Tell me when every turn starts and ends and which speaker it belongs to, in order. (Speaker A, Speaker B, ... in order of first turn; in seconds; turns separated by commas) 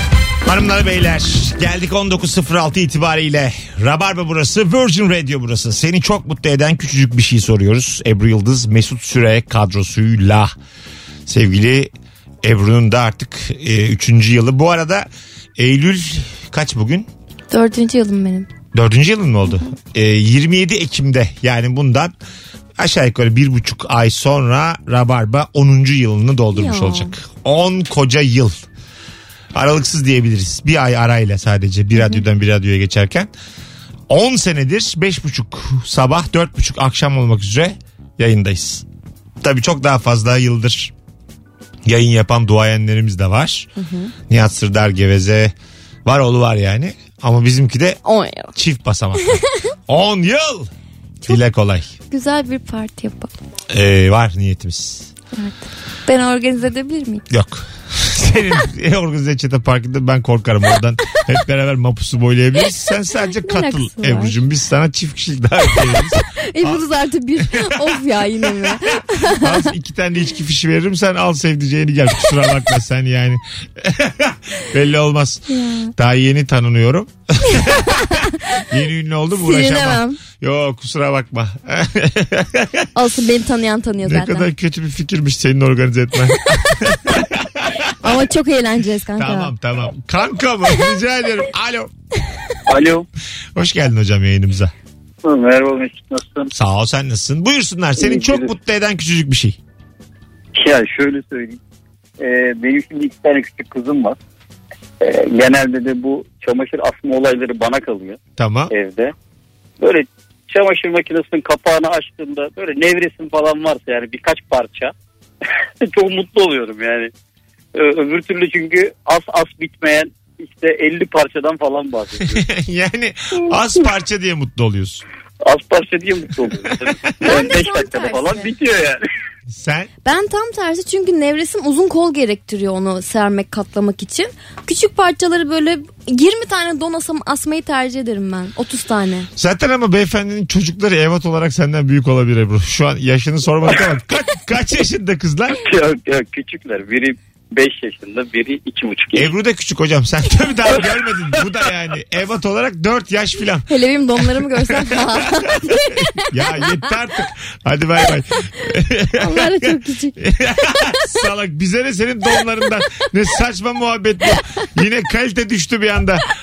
Speaker A: 0.5-10.5, Speaker A: 11.3-11.9, Speaker A: 12.4-17.1, Speaker B: 17.5-18.5, Speaker A: 18.7-22.1, Speaker A: 22.8-28.6, Speaker B: 26.5-27.1, Speaker A: 29.5-33.3, Speaker B: 31.9-32.2, Speaker A: 34.1-38.8, Speaker A: 39.4-40.9, Speaker A: 41.9-43.7, Speaker B: 43.8-44.1, Speaker A: 44.3-45.5, Speaker A: 46.0-48.0, Speaker B: 48.0-48.5, Speaker A: 48.5-50.7, Speaker A: 51.2-51.9, Speaker B: 52.1-53.3, Speaker A: 53.7-55.1, Speaker B: 55.4-57.2, Speaker A: 57.3-66.8, Speaker B: 63.4-64.4, Speaker B: 66.3-69.7, Speaker A: 67.4-78.1, Speaker B: 75.5-75.9, Speaker B: 77.6-78.6, Speaker A: 78.7-82.9, Speaker B: 79.3-80.2, Speaker B: 82.9-84.5, Speaker A: 84.0-87.9, Speaker B: 88.0-89.5, Speaker A: 89.2-91.9, Speaker C: 92.7-93.0, Speaker A: 93.5-94.7, Speaker C: 95.2-96.5, Speaker A: 96.5-99.6, Speaker C: 98.0-98.5, Speaker C: 100.5-101.6, Speaker C: 102.2-104.2, Speaker C: 105.0-108.2, Speaker A: 108.4-108.7, Speaker C: 108.7-109.1, Speaker C: 109.8-114.9, Speaker C: 115.8-117.1, Speaker C: 117.7-122.5, Speaker A: 122.3-125.0, Speaker C: 125.4-129.0, Speaker B: 127.2-128.5, Speaker A: 129.5-129.9, Speaker B: 130.0-139.3, Speaker A: 139.3-145.6, Speaker C: 145.7-149.3, Speaker A: 149.1-153.7, Speaker B: 153.7-156.7, Speaker A: 154.2-166.2, Speaker B: 159.2-160.2